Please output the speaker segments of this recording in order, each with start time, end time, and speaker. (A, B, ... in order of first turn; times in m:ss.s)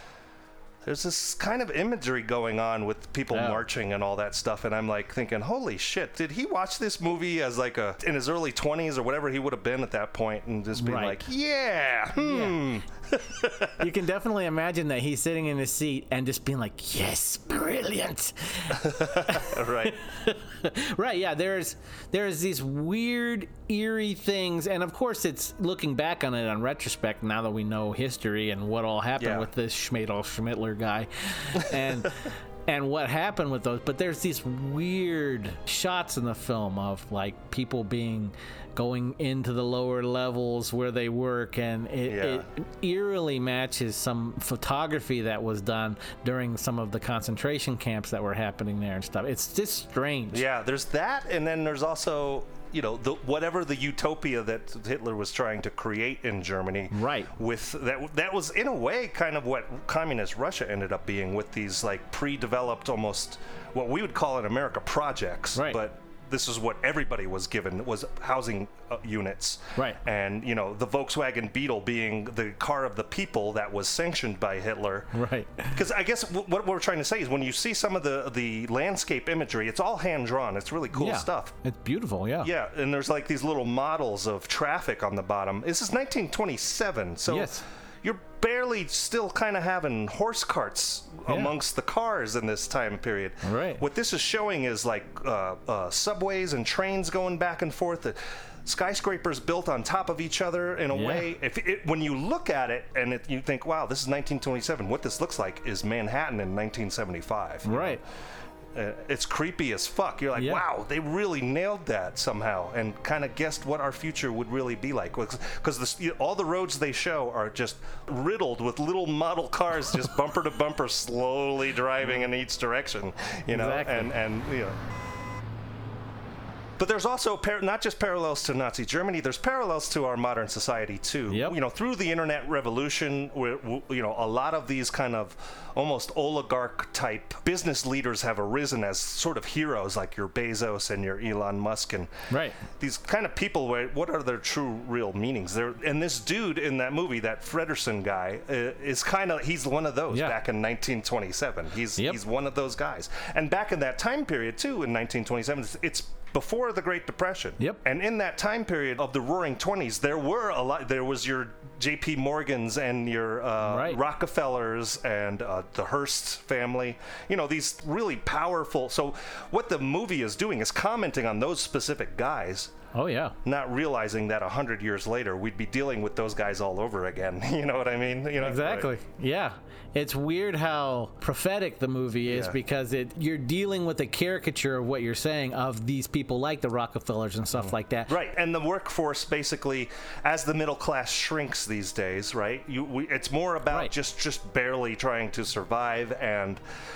0:00.8-0:13.7 A
0:03.3-0:03.6 B
0:10.8-0:11.2 B
0:12.2-0:12.6 B
0:13.8-0:50.4 B
0:18.8-0:20.0 A
0:29.2-0:29.5 A
0:42.0-0:42.4 A
0:50.3-1:15.1 A
0:56.9-0:57.3 B
1:15.1-1:15.7 B
1:15.7-1:21.5 A
1:20.9-1:22.5 B
1:22.4-1:48.0 A
1:27.3-1:27.6 B
1:31.3-1:31.5 B
1:33.4-1:33.8 B
1:40.9-1:41.3 B
1:47.6-1:48.0 B
1:48.7-2:04.8 A
1:50.4-1:50.6 B
2:03.5-2:04.1 B
2:06.8-2:22.1 A
2:11.3-2:11.6 B
2:22.3-2:22.6 B
2:22.8-2:52.7 A
2:30.1-2:30.4 B
2:43.6-2:44.0 B
2:52.9-2:53.4 B
2:53.4-2:58.9 A
2:58.4-3:08.1 B
3:02.3-3:02.6 A
3:07.5-3:16.6 A